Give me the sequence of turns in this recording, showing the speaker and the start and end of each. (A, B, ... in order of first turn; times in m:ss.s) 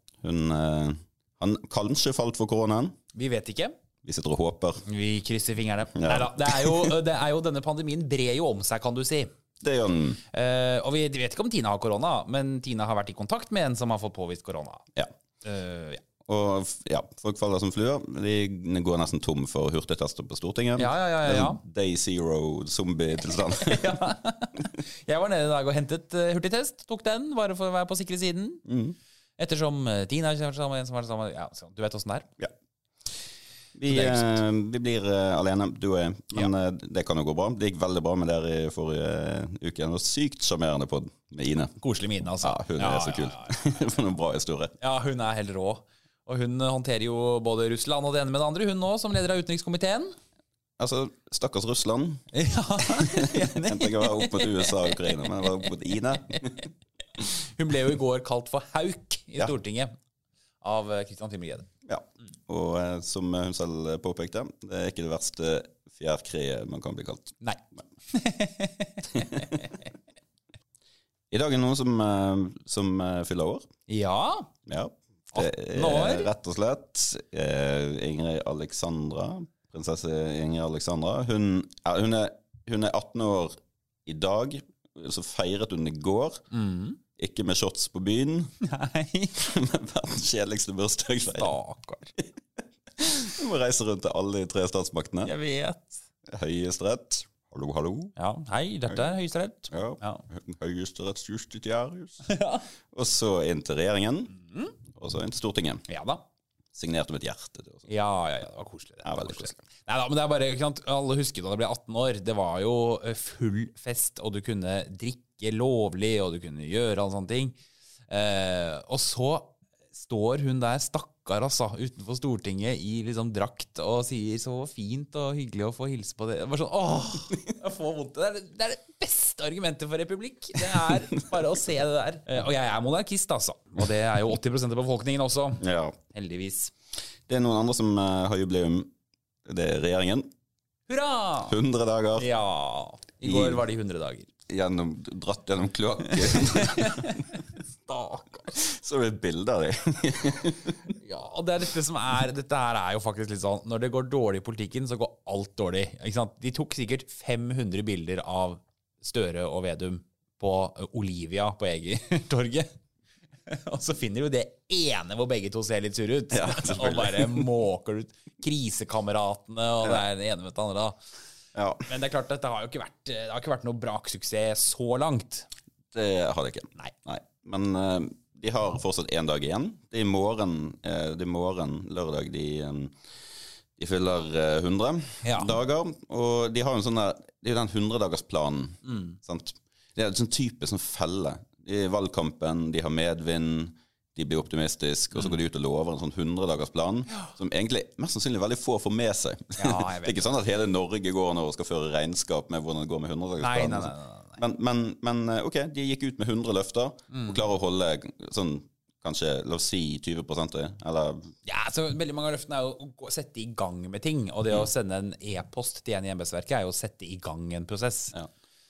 0:00.2-0:02.9 A
0:03.1-0:03.7 B
0:04.0-0:04.8 A
0:04.8-0:09.3 B
0:05.9-0:07.0 A
0:09.6-0:10.2 A
0:10.3-0:14.9 B
0:15.4-0:16.0 B
0:16.2-0:24.0 A
0:20.8-0:21.6 B
0:23.5-0:28.6 B
0:28.6-0:29.0 A
0:29.4-0:32.3 B
0:33.8-0:41.8 A
0:33.9-0:34.4 B
0:41.8-0:43.6 B
0:42.4-0:44.7 A
0:44.8-0:50.1 B
0:50.8-0:52.2 A
0:52.3-0:55.4 B
0:52.8-0:56.7 A
0:56.3-0:56.7 B
0:57.2-0:59.9 B
1:00.6-1:01.7 B
1:01.8-1:07.4 A
1:07.4-1:09.7 B
1:09.1-1:09.4 A
1:11.3-1:13.7 A
1:13.9-1:14.5 B
1:14.6-1:23.5 A
1:15.3-1:16.3 B
1:24.0-1:26.4 A
1:26.5-1:27.0 B
1:27.2-1:28.5 A
1:28.6-1:29.4 B
1:29.4-1:31.5 A
1:31.3-1:32.1 B
1:33.0-1:35.3 A
1:35.2-1:36.0 B
1:36.2-1:38.1 A
1:38.2-1:40.2 B
1:39.7-1:42.3 A
1:42.2-1:42.7 B
1:42.9-1:44.3 A
1:44.3-1:44.7 B
1:44.9-1:45.8 A
1:45.9-1:46.2 B
1:46.7-1:47.9 A
1:47.9-1:57.6 B
1:49.0-1:49.6 A
1:58.1-2:16.7 B
2:10.7-2:11.0 A
2:15.6-2:16.0 A
2:17.3-2:18.9 A
2:19.4-2:20.3 A
2:20.9-2:21.6 B
2:21.4-2:22.3 A
2:22.2-2:24.3 B
2:23.2-2:23.6 A
2:24.5-2:27.4 A
2:26.1-2:28.5 B
2:28.5-2:30.9 A
2:31.0-2:42.7 B
2:43.5-2:51.0 B
2:46.3-2:47.5 A
2:51.5-2:51.9 A
2:51.9-2:55.5 B
2:55.9-3:03.0 A
3:03.8-3:31.3 A
3:05.2-3:05.5 B
3:08.8-3:09.2 B
3:19.6-3:20.3 B
3:23.4-3:24.4 B
3:27.1-3:27.4 B
3:31.4-3:38.1 B